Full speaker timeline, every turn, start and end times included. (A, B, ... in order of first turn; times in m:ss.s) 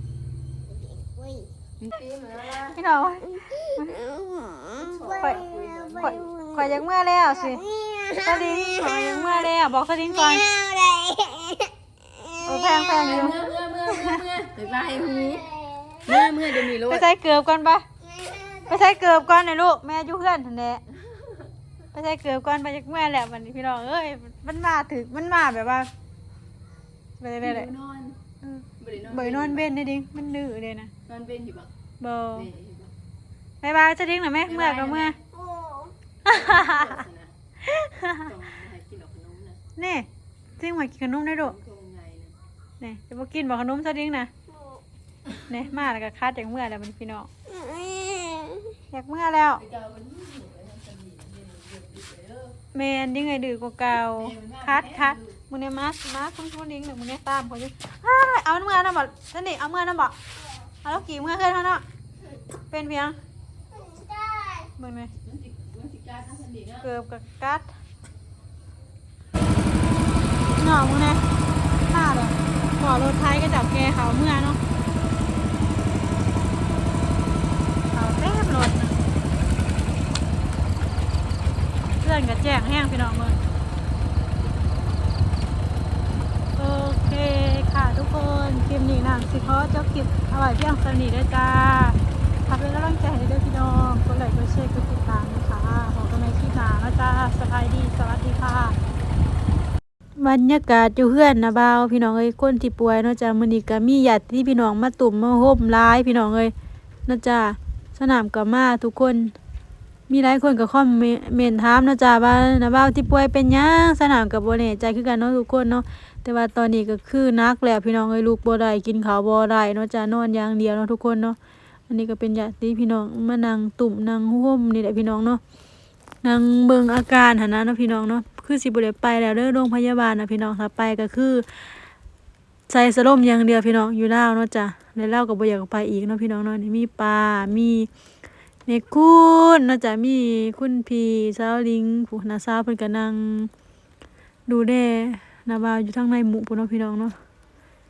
0:00.7-0:01.5 A
0:01.8-0:03.0 B
0:02.6-0:04.0 C
0:03.2-0:09.5 A
0:04.7-0:06.3 B
0:06.0-0:07.6 C
0:08.2-0:10.5 C
0:10.0-0:13.2 A
0:12.4-0:14.2 C
0:13.0-0:15.5 B
0:14.8-0:16.3 A
0:16.0-0:17.1 B
0:16.8-0:17.8 C
0:18.0-0:19.3 A
0:18.7-0:20.8 C
0:21.1-0:21.4 B
0:21.9-0:25.9 C
0:27.2-0:27.7 C
0:27.4-0:28.2 B
0:28.4-0:30.9 C
0:28.8-0:29.7 B
0:31.0-0:31.7 B
0:32.0-0:32.5 C
0:32.3-0:32.9 B
0:33.6-0:35.2 C
0:34.4-0:35.2 B
0:35.2-0:35.9 A
0:36.2-0:37.0 C
0:36.2-0:37.3 B
0:37.6-0:38.3 C
0:38.2-0:39.6 B
0:39.8-0:40.1 C
0:40.6-0:41.5 C
0:41.4-0:42.4 B
0:42.8-0:44.3 C
0:44.5-0:44.8 A
0:45.5-0:47.3 C
0:47.4-0:48.8 A
0:48.9-0:49.6 C
0:49.5-0:52.6 B
0:52.7-1:00.1 C
0:53.9-0:55.4 B
1:00.8-1:01.8 C
1:02.7-1:03.2 C
1:03.7-1:04.7 A
1:04.8-1:05.1 C
1:05.2-1:06.9 B
1:06.8-1:07.7 C
1:10.6-1:11.2 C
1:11.8-1:14.6 C
1:17.9-1:19.0 C
1:22.0-1:23.4 C
1:26.6-1:38.8 C
1:40.2-1:46.5 C
1:47.1-1:49.3 C
1:50.1-2:01.4 C
2:01.9-2:05.4 C
2:06.2-2:11.5 C
2:12.7-2:17.9 C
2:18.6-2:23.5 C
2:24.5-2:27.2 C